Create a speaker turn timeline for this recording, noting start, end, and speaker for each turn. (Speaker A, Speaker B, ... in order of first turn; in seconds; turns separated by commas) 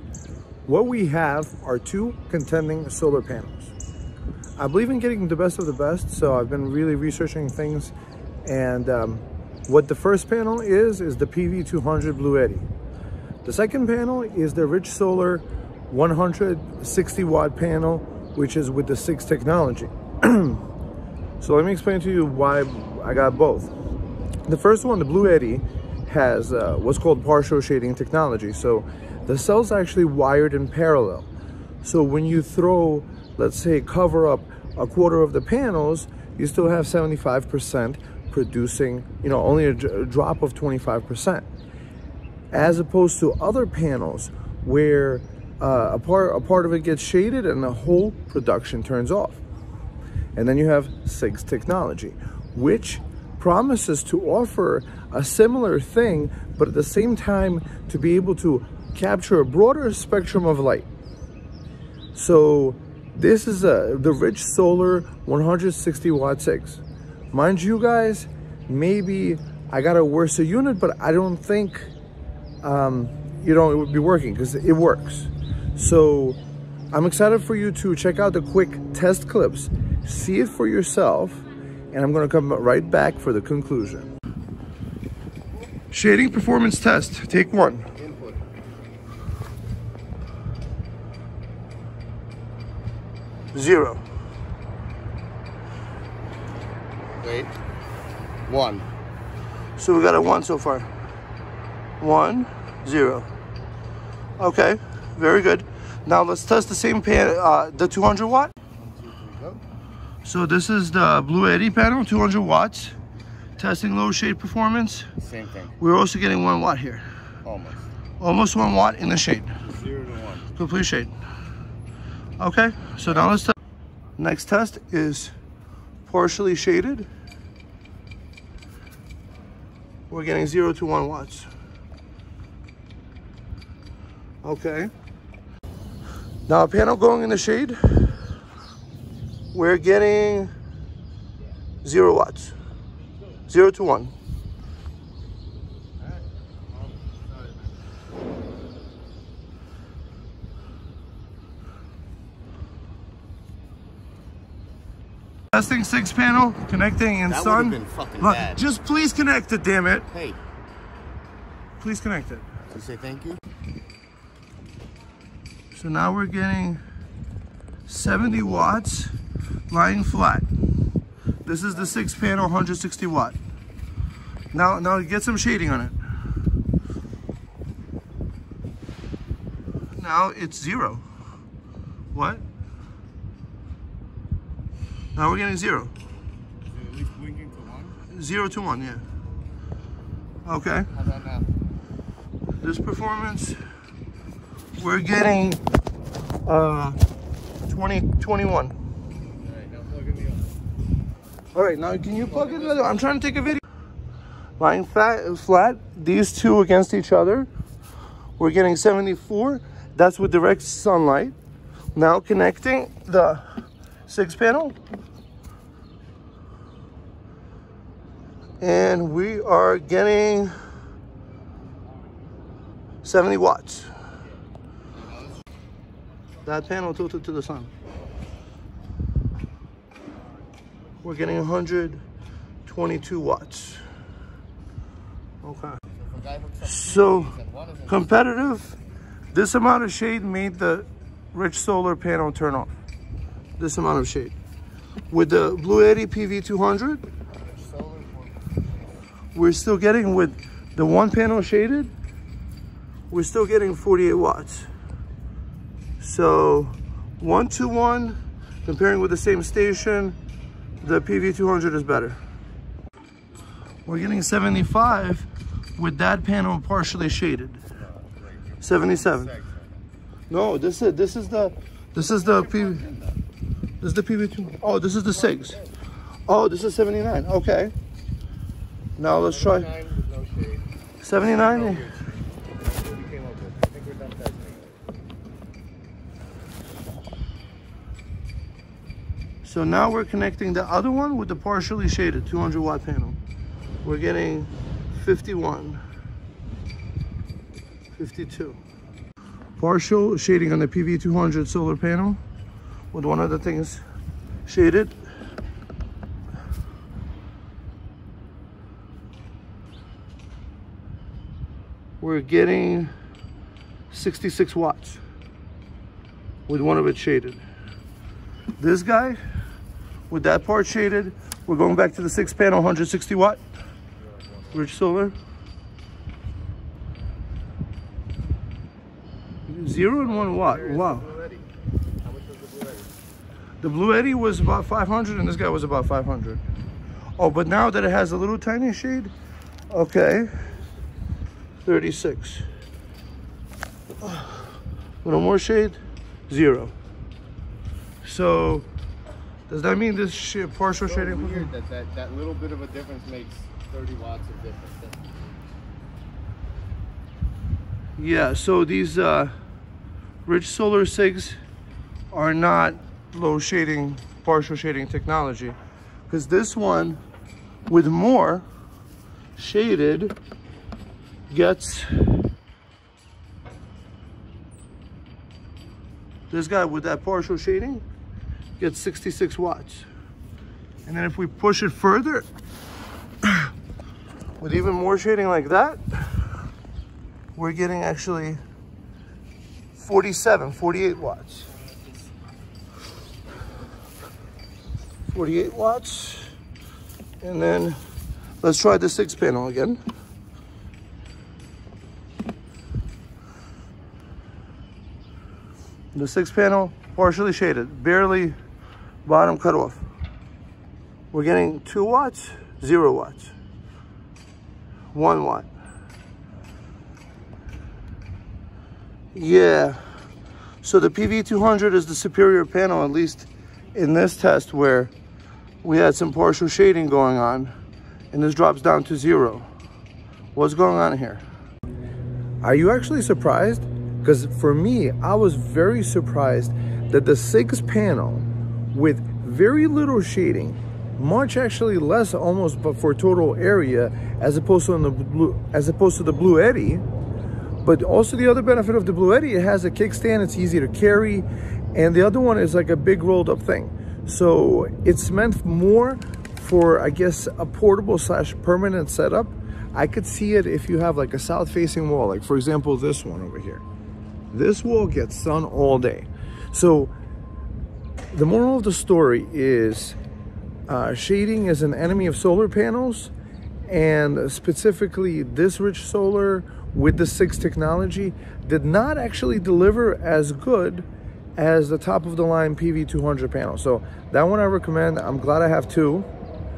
Speaker A: 0.7-3.7, Speaker A: 4.6-7.9, Speaker A: 8.4-12.7, Speaker A: 13.4-20.6, Speaker A: 21.4-23.7, Speaker A: 24.5-31.3, Speaker A: 31.8-41.4, Speaker A: 42.5-49.4, Speaker A: 50.4-60.9, Speaker A: 62.1-71.9, Speaker A: 72.6-76.4, Speaker A: 76.9-84.1, Speaker A: 85.9-87.9, Speaker B: 88.0-88.4, Speaker A: 93.5-94.0, Speaker B: 97.2-97.5, Speaker B: 98.4-98.9, Speaker A: 99.8-100.9, Speaker A: 102.0-103.3, Speaker A: 104.4-108.5, Speaker B: 108.8-109.6, Speaker A: 110.2-112.9, Speaker A: 113.6-115.1, Speaker B: 115.2-115.7, Speaker A: 115.8-117.0, Speaker B: 117.4-117.9, Speaker A: 118.2-119.6, Speaker B: 119.6-120.5, Speaker A: 120.5-121.1, Speaker A: 122.4-123.5, Speaker A: 124.2-125.3, Speaker A: 126.0-127.1, Speaker A: 130.1-131.5, Speaker A: 134.4-134.9, Speaker A: 136.5-138.1, Speaker A: 139.5-140.5, Speaker A: 141.8-142.5, Speaker A: 143.5-144.1, Speaker A: 155.5-160.1, Speaker B: 157.2-158.6, Speaker B: 160.1-160.4, Speaker A: 161.8-162.5, Speaker B: 162.7-163.4, Speaker A: 165.7-166.8, Speaker A: 167.9-169.1, Speaker A: 169.7-170.5, Speaker A: 171.4-173.4, Speaker A: 174.5-175.9, Speaker A: 179.9-181.0, Speaker A: 182.1-182.4, Speaker A: 185.2-185.9, Speaker B: 186.7-188.0, Speaker A: 188.0-189.0, Speaker A: 190.4-190.9, Speaker B: 190.9-191.4, Speaker A: 192.6-193.6, Speaker A: 194.8-195.6, Speaker A: 196.4-197.0, Speaker A: 197.7-198.7, Speaker B: 199.6-200.4, Speaker A: 201.5-203.6, Speaker A: 204.6-207.5, Speaker A: 208.4-211.3, Speaker A: 211.9-213.4, Speaker A: 214.1-214.8, Speaker A: 218.6-220.5, Speaker A: 223.0-223.9, Speaker A: 226.4-227.7, Speaker A: 231.0-232.0, Speaker A: 232.7-233.8, Speaker A: 235.4-235.8, Speaker B: 236.0-238.1, Speaker A: 236.6-237.3, Speaker A: 237.9-238.8, Speaker A: 239.3-242.7, Speaker A: 243.6-244.3, Speaker A: 245.1-247.0, Speaker B: 247.4-248.3, Speaker A: 249.3-251.9, Speaker A: 253.1-254.7, Speaker A: 256.0-260.1, Speaker A: 260.8-262.2, Speaker A: 263.9-267.6, Speaker A: 268.6-269.4, Speaker A: 270.3-272.9, Speaker A: 273.8-275.6, Speaker A: 276.3-277.7, Speaker A: 279.0-279.7, Speaker B: 279.1-280.6, Speaker A: 281.0-281.9, Speaker B: 281.4-282.1, Speaker B: 282.7-284.7, Speaker A: 289.4-293.2, Speaker A: 293.8-295.8, Speaker A: 297.9-298.6, Speaker A: 299.6-302.2, Speaker A: 302.9-303.8, Speaker A: 304.5-305.0, Speaker A: 312.0-312.9, Speaker A: 313.9-315.0, Speaker A: 316.5-317.4, Speaker A: 318.6-319.2, Speaker A: 320.1-323.4, Speaker A: 324.5-325.1, Speaker A: 329.5-331.1, Speaker B: 330.2-331.4, Speaker B: 332.0-332.9, Speaker A: 333.6-336.4, Speaker A: 337.2-339.1, Speaker A: 339.7-340.3, Speaker A: 341.6-342.4, Speaker A: 344.0-344.4, Speaker A: 345.0-346.7, Speaker A: 348.0-348.7, Speaker A: 349.5-351.5, Speaker B: 350.8-355.2, Speaker A: 358.0-359.3, Speaker A: 360.2-361.4, Speaker A: 362.1-365.6, Speaker A: 366.1-367.0, Speaker A: 367.7-368.4, Speaker A: 369.4-370.1, Speaker A: 371.3-371.9, Speaker A: 376.3-377.8, Speaker A: 378.6-379.9, Speaker A: 380.9-382.3, Speaker A: 383.2-383.5, Speaker A: 384.4-386.3, Speaker A: 387.4-388.4, Speaker A: 389.8-391.5, Speaker A: 395.1-396.3, Speaker A: 397.2-397.8, Speaker A: 398.4-399.8, Speaker A: 405.9-408.3, Speaker A: 409.0-409.8, Speaker A: 411.1-413.3, Speaker A: 414.9-415.5, Speaker A: 419.1-419.8, Speaker A: 420.6-424.9, Speaker A: 425.6-427.5, Speaker A: 428.1-429.5, Speaker A: 430.3-431.2, Speaker A: 432.4-446.8, Speaker A: 447.6-463.6, Speaker A: 464.3-466.9, Speaker A: 468.1-470.0, Speaker A: 470.7-473.1, Speaker A: 473.7-480.8, Speaker A: 481.4-486.1